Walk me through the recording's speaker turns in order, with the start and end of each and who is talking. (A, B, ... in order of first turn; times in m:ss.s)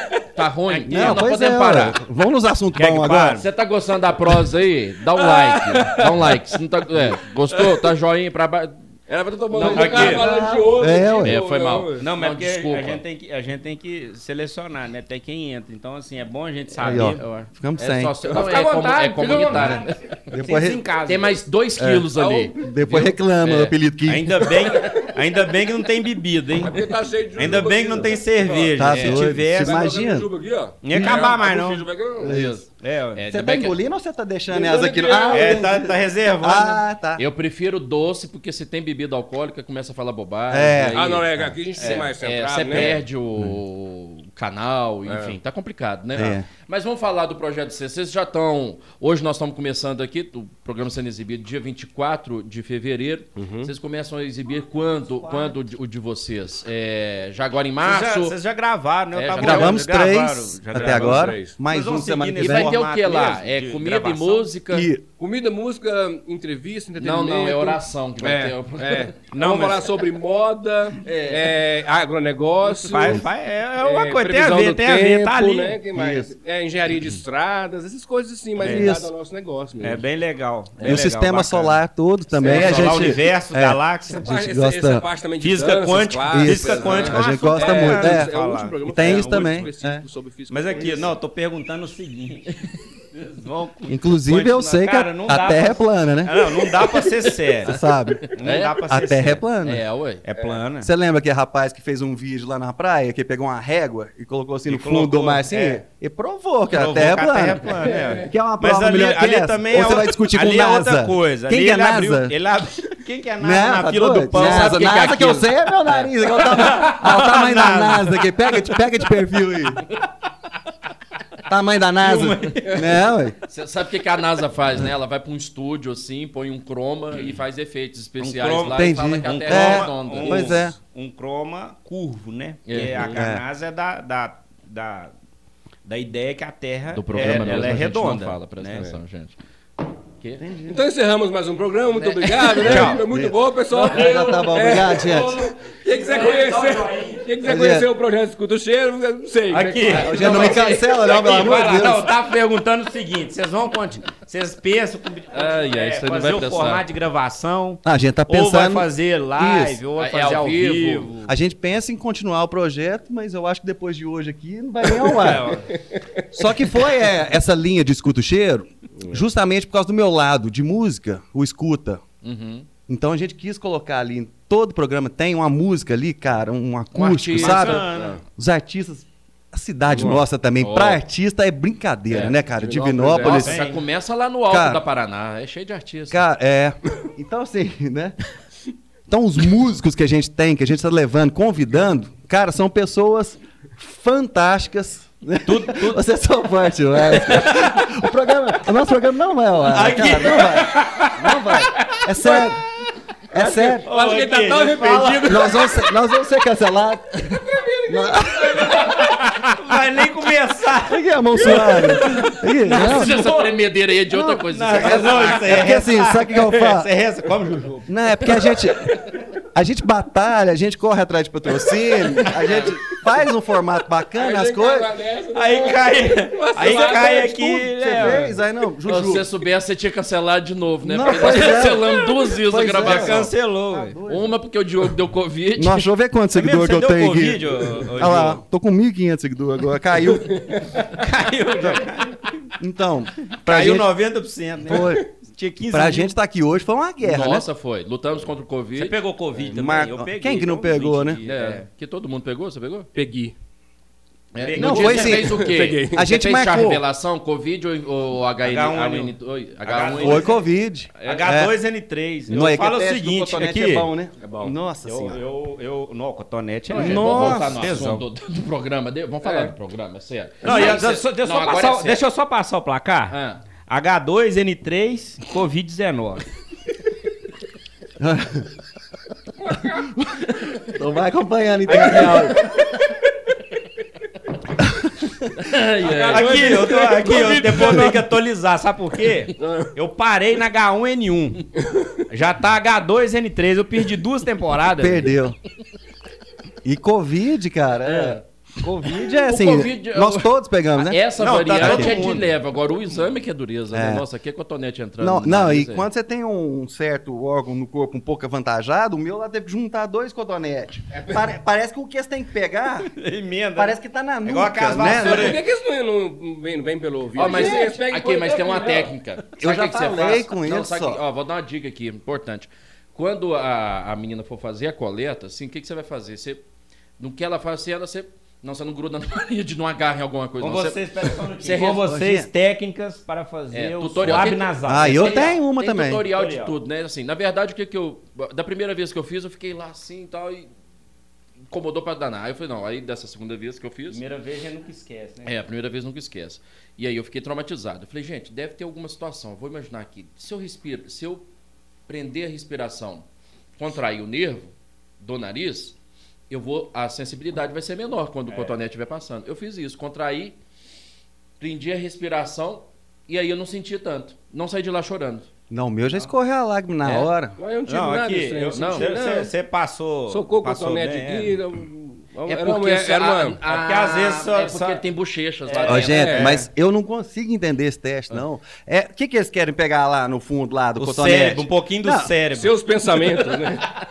0:00.3-0:02.0 A
0:00.7-0:01.3 B
0:00.8-0:03.4 C
0:02.7-0:03.5 B
0:03.4-0:08.8 A
0:05.2-0:06.4 D
0:07.6-0:07.9 D
0:09.1-0:12.0 D
0:09.5-0:10.6 B
0:09.6-0:10.2 A
0:09.6-0:11.4 C
0:11.2-0:13.0 A
0:12.0-0:17.2 B
0:16.8-0:20.2 A
0:16.8-0:18.2 C
0:18.3-0:18.6 D
0:18.3-0:19.8 B
0:19.3-0:20.8 C
0:20.3-0:21.4 B
0:21.0-0:23.8 A
0:21.8-0:24.5 C
0:22.1-0:22.5 D
0:24.0-0:26.8 B
0:24.5-0:25.1 D
0:26.6-0:28.8 D
0:27.4-0:29.9 B
0:28.7-0:30.3 C
0:28.9-0:29.3 A
0:29.5-0:32.3 D
0:30.8-0:33.2 B
0:30.9-0:31.2 C
0:30.9-0:31.4 A
0:32.2-0:32.6 C
0:32.3-0:33.8 A
0:33.3-0:37.2 C
0:34.5-0:35.7 D
0:35.3-0:36.8 B
0:37.2-0:58.4 A
0:40.5-0:41.5 C
0:40.9-0:43.0 D
0:41.8-0:42.1 B
0:45.1-0:45.4 D
0:46.2-0:46.5 C
0:53.4-0:53.7 D
0:55.0-0:55.6 B
0:57.8-1:04.5 B
0:59.1-0:59.8 A
0:59.4-1:02.8 C
1:00.7-1:01.6 D
1:02.4-1:04.9 A
1:04.7-1:05.0 C
1:05.2-1:07.8 D
1:07.0-1:09.1 A
1:08.2-1:08.5 B
1:08.8-1:13.3 D
1:09.3-1:09.9 B
1:11.0-1:11.5 A
1:12.8-1:15.8 B
1:13.8-1:20.0 D
1:15.9-1:16.3 C
1:18.6-1:19.1 C
1:18.6-1:18.9 B
1:19.8-1:21.8 B
1:20.8-1:21.0 D
1:20.8-1:25.0 C
1:22.4-1:24.3 B
1:22.4-1:23.0 D
1:24.1-1:31.1 D
1:25.4-1:29.7 B
1:26.3-1:28.3 C
1:26.8-1:27.1 A
1:28.9-1:30.0 C
1:30.5-1:32.6 B
1:33.1-1:39.4 B
1:33.9-1:36.7 C
1:37.6-1:38.3 C
1:38.4-1:38.8 A
1:38.8-1:39.8 C
1:39.6-1:40.2 A
1:40.2-1:40.9 B
1:40.8-1:52.3 C
1:44.7-1:45.8 B
1:46.7-1:54.9 B
1:47.8-1:48.3 D
1:53.4-1:59.9 C
1:54.3-1:56.1 A
1:56.2-1:58.6 B
2:01.4-2:03.4 C
2:02.0-2:03.0 B
2:03.5-2:10.7 A
2:08.2-2:15.1 B
2:08.7-2:10.7 C
2:12.6-2:13.2 A
2:13.1-2:13.4 C
2:15.8-2:18.9 B
2:16.9-2:19.4 A
2:17.2-2:17.8 C
2:20.2-2:20.4 A
2:20.4-2:20.8 C
2:20.7-2:30.9 D
2:22.0-2:22.9 A
2:22.6-2:25.4 C
2:22.6-2:23.0 B
2:25.0-2:27.3 B
2:27.4-2:27.9 C
2:29.5-2:41.3 B
2:29.9-2:32.1 C
2:35.3-2:36.8 A
2:37.8-2:39.8 C
2:40.0-2:41.1 A
2:41.2-2:45.6 C
2:45.1-2:45.7 B
2:46.3-2:52.0 C
2:52.2-2:52.7 A
2:52.9-3:03.6 C
2:56.9-2:57.8 A
2:57.3-2:58.2 B
2:57.9-2:58.2 D
2:59.9-3:00.2 D
3:00.6-3:01.0 A
3:02.1-3:06.2 A
3:02.2-3:03.5 D
3:03.2-3:03.8 B
3:04.5-3:04.8 C
3:06.1-3:08.2 C
3:09.1-3:22.6 C
3:15.4-3:16.0 B
3:17.1-3:17.7 B
3:19.6-3:22.5 B
3:23.3-3:23.8 C
3:23.3-3:25.7 B
3:23.8-3:25.9 D
3:25.2-3:29.0 C
3:27.4-3:29.2 D
3:28.7-3:33.6 B
3:30.8-3:33.2 C
3:32.7-3:35.6 A
3:34.1-3:38.6 B
3:34.6-3:36.9 C
3:37.9-3:44.9 C
3:42.4-3:42.8 A
3:44.1-3:48.2 D
3:45.3-3:48.4 B
3:47.5-3:49.3 C
3:48.8-3:53.3 A
3:50.8-3:54.4 C
3:51.0-3:54.0 B
3:54.1-3:55.9 A
3:55.6-4:00.6 C
3:56.3-3:58.4 B
4:00.0-4:00.8 D
4:00.9-4:02.5 B
4:02.6-4:03.9 C
4:03.3-4:06.1 B
4:04.6-4:05.0 C
4:05.7-4:07.5 C
4:07.0-4:09.0 A
4:08.8-4:11.6 B
4:09.5-4:11.2 C
4:11.2-4:12.9 A
4:12.9-4:13.3 D
4:14.3-4:20.3 A
4:14.4-4:15.3 B
4:14.6-4:16.8 C
4:15.1-4:16.1 D
4:18.4-4:20.4 B
4:20.0-4:21.6 C
4:21.0-4:23.9 B
4:22.3-4:25.2 C
4:24.2-4:24.5 D
4:24.8-4:28.0 B
4:26.7-4:32.0 A
4:26.7-4:27.4 D
4:29.2-4:29.5 B
4:30.4-4:36.2 B
4:33.1-4:33.4 A
4:38.0-4:38.4 C
4:39.5-4:39.9 D
4:40.0-4:42.4 C
4:41.7-4:42.3 A
4:45.4-4:46.6 A
4:45.8-4:48.0 D
4:46.1-4:51.4 B
4:47.6-4:47.9 C
4:49.4-4:49.7 D
4:51.6-4:51.9 D
4:52.1-4:55.1 B
4:54.8-4:55.4 C
4:56.6-5:02.2 C
4:58.6-4:59.1 B
4:59.2-5:05.9 A
5:01.2-5:02.3 B
5:03.7-5:04.0 C
5:05.0-5:12.9 C
5:12.8-5:15.4 B
5:13.6-5:15.4 C
5:14.8-5:18.9 D
5:17.1-5:26.4 A
5:19.4-5:21.0 C
5:27.0-5:31.8 A
5:30.4-5:35.4 B
5:31.8-5:32.3 C
5:33.5-5:40.5 A
5:34.0-5:36.0 C
5:36.1-5:36.5 B
5:41.5-5:44.0 A
5:43.9-5:45.4 B
5:45.2-5:51.2 A
5:51.9-5:53.0 A
5:53.6-5:55.8 A
5:56.3-6:00.4 A
5:58.3-5:58.6 B
6:01.4-6:05.3 A
6:05.5-6:07.4 C
6:06.8-6:07.1 A
6:07.4-6:09.3 D
6:07.6-6:11.4 B
6:08.5-6:08.9 A
6:10.1-6:13.4 D
6:12.3-6:16.3 A
6:13.4-6:14.8 B
6:15.5-6:16.4 B
6:15.6-6:22.1 C
6:15.7-6:16.4 D
6:20.8-6:22.5 B
6:22.3-6:23.7 D